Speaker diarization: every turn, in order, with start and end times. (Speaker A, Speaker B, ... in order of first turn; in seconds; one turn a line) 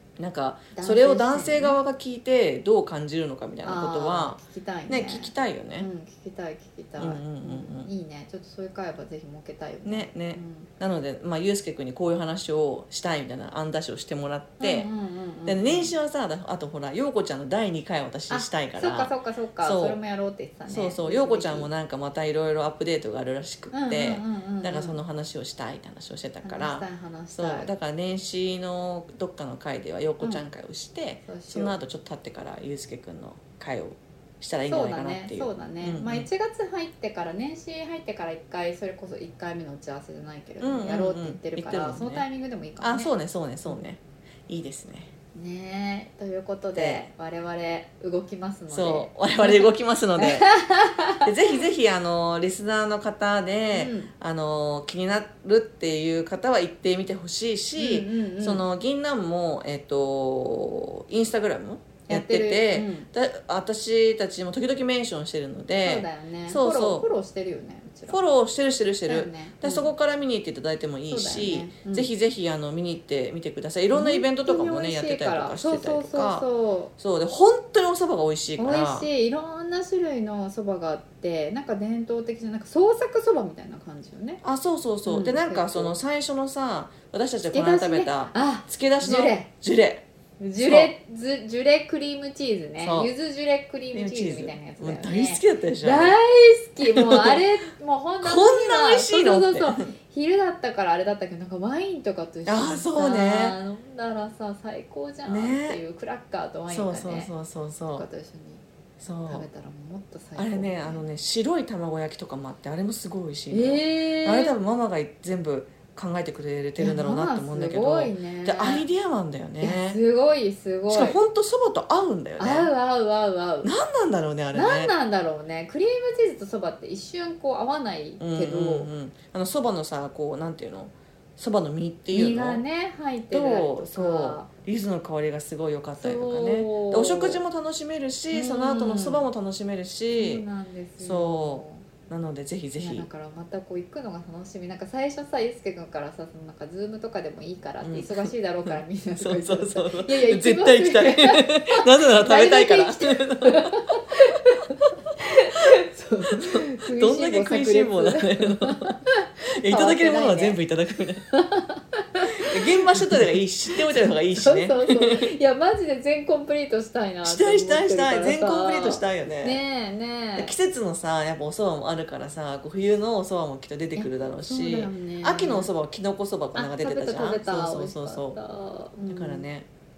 Speaker A: 0.2-5.9
Speaker B: 0.7-1.8
Speaker B: 3.6-10.7
Speaker A: 7.0-7.9
Speaker A: 9.8-14.9
Speaker B: 14.6-15.9
Speaker A: 15.5-20.0
Speaker B: 18.3-21.7
Speaker A: 20.7-36.3
Speaker B: 23.7-25.0
Speaker B: 26.4-27.7
Speaker B: 31.3-31.8
Speaker B: 34.7-43.1
Speaker A: 40.6-42.2
Speaker A: 42.8-45.1
Speaker B: 45.3-51.3
Speaker A: 46.8-47.1
Speaker A: 48.7-50.5
Speaker A: 51.2-67.1
Speaker B: 53.7-54.1
Speaker B: 57.8-58.6
Speaker B: 62.1-63.1
Speaker B: 65.8-68.2
Speaker A: 68.1-76.5
Speaker B: 69.1-69.9
Speaker B: 71.1-72.1
Speaker B: 73.9-76.9
Speaker A: 77.0-79.1
Speaker B: 78.6-84.4
Speaker A: 84.4-90.0
Speaker B: 85.1-85.9
Speaker B: 87.5-89.5
Speaker B: 90.4-107.3
Speaker A: 90.6-90.9
Speaker A: 92.8-93.1
Speaker A: 93.9-96.2
Speaker A: 96.8-97.4
Speaker A: 98.2-99.9
Speaker A: 102.5-103.6
Speaker A: 105.3-105.8
Speaker A: 106.7-108.1
Speaker B: 107.9-108.6
Speaker A: 109.0-109.5
Speaker B: 109.3-111.0
Speaker A: 110.4-120.0
Speaker B: 113.5-114.6
Speaker B: 116.8-118.9
Speaker B: 119.6-121.2
Speaker A: 120.9-122.7
Speaker B: 122.4-123.7
Speaker A: 123.6-124.9
Speaker B: 124.5-128.9
Speaker A: 128.2-132.6
Speaker B: 132.1-134.5
Speaker A: 133.3-140.4
Speaker B: 136.0-137.4
Speaker B: 138.3-139.3
Speaker B: 140.1-141.9
Speaker A: 141.0-143.1
Speaker B: 142.8-160.6
Speaker A: 147.8-153.8
Speaker A: 155.7-158.9
Speaker A: 159.5-161.2
Speaker B: 161.3-170.5
Speaker A: 162.4-165.3
Speaker A: 167.2-169.6
Speaker A: 170.4-178.4
Speaker B: 174.0-175.7
Speaker B: 176.6-179.5
Speaker A: 179.1-179.7